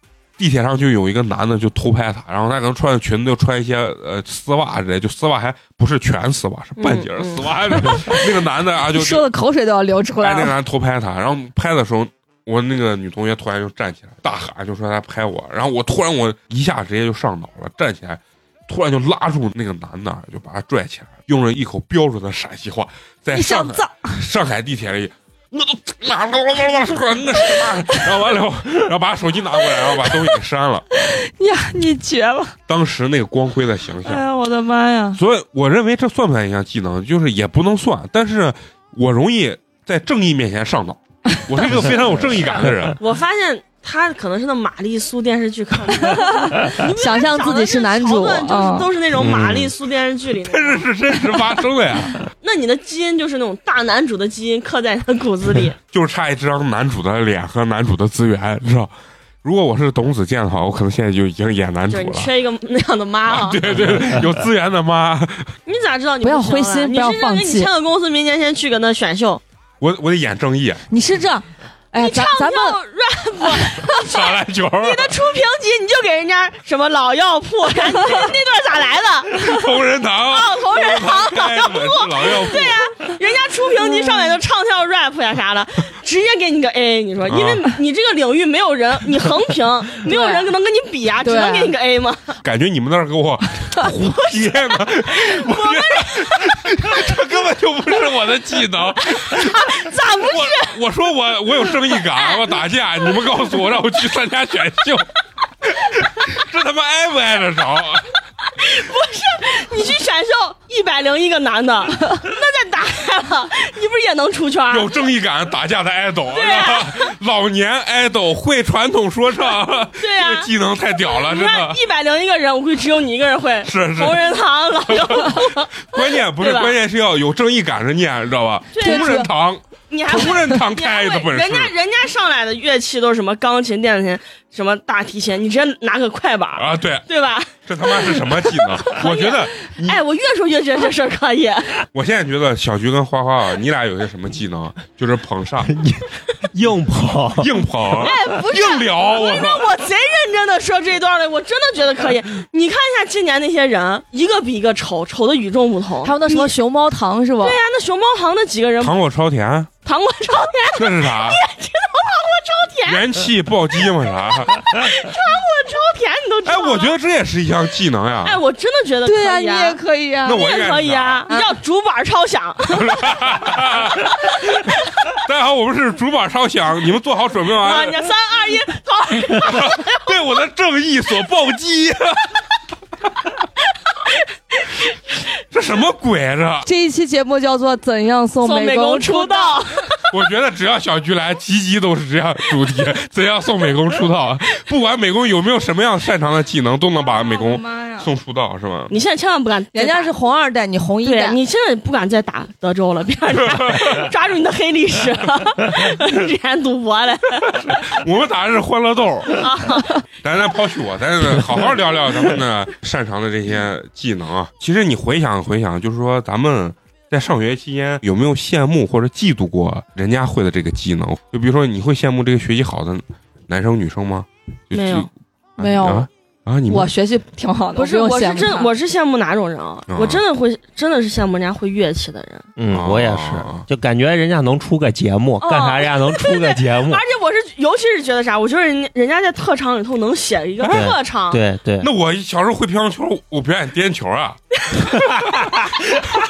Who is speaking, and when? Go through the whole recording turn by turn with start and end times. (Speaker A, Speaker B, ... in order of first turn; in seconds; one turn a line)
Speaker A: 0.4-9.3
Speaker B: 6.8-7.5
Speaker C: 8.9-10.5
Speaker A: 10.2-30.9
Speaker C: 23.3-24.0
Speaker C: 30.9-32.6
Speaker A: 32.7-34.2
Speaker C: 34.0-35.2
Speaker A: 35.1-43.0
Speaker B: 43.0-50.9
Speaker C: 46.0-48.9
Speaker D: 49.2-49.7
Speaker A: 50.4-52.2
Speaker B: 52.4-55.8
Speaker A: 55.9-58.9
Speaker A: 59.4-62.3
Speaker B: 61.9-63.9
Speaker A: 63.3-65.5
Speaker B: 65.7-69.4
Speaker C: 66.2-67.7
Speaker A: 69.8-70.9
Speaker C: 70.9-72.8
Speaker B: 72.0-79.7
Speaker A: 73.9-75.1
Speaker A: 79.3-82.8
Speaker B: 80.3-92.4
Speaker A: 87.3-87.7
Speaker C: 90.0-90.5
Speaker C: 91.2-91.7
Speaker A: 92.4-105.1
Speaker B: 94.0-96.6
Speaker B: 99.0-100.8
Speaker B: 102.0-102.5
Speaker A: 105.6-108.1
Speaker B: 108.5-114.9
Speaker A: 114.7-121.8
Speaker B: 116.3-117.1
Speaker B: 120.0-120.5
Speaker B: 121.0-126.8
Speaker A: 123.6-124.3
Speaker A: 124.9-131.7
Speaker B: 128.7-129.3
Speaker C: 128.8-129.3
Speaker B: 129.9-141.9
Speaker A: 136.6-137.1
Speaker A: 137.7-140.0
Speaker A: 141.9-145.8
Speaker D: 145.7-147.5
Speaker A: 147.4-149.7
Speaker B: 147.9-156.6
Speaker C: 156.0-157.6
Speaker B: 157.4-159.0
Speaker A: 158.8-159.7
Speaker B: 159.8-163.1
Speaker A: 160.7-161.4
Speaker A: 162.9-164.6
Speaker B: 164.5-167.0
Speaker A: 166.4-168.4
Speaker B: 168.2-169.8
Speaker C: 169.1-170.5
Speaker A: 170.2-171.3
Speaker B: 170.3-173.2
Speaker A: 172.7-178.1
Speaker B: 177.6-180.2
Speaker A: 179.5-182.4
Speaker B: 184.1-184.9
Speaker A: 185.5-186.7
Speaker C: 186.6-189.6
Speaker B: 188.4-190.1
Speaker A: 190.1-199.0
Speaker C: 197.1-198.1
Speaker B: 198.9-200.1
Speaker C: 199.7-201.4
Speaker B: 201.1-207.8
Speaker A: 203.4-204.1
Speaker A: 207.5-209.5
Speaker B: 209.4-210.1
Speaker A: 210.2-225.1
Speaker B: 224.7-225.1
Speaker C: 225.6-226.1
Speaker D: 225.6-226.0
Speaker A: 225.7-226.9
Speaker C: 226.7-228.7
Speaker B: 227.8-232.5
Speaker A: 229.9-230.2
Speaker D: 232.6-237.0
Speaker A: 232.7-233.7
Speaker B: 235.4-241.4
Speaker A: 240.6-240.9
Speaker D: 240.7-241.9
Speaker A: 241.8-245.7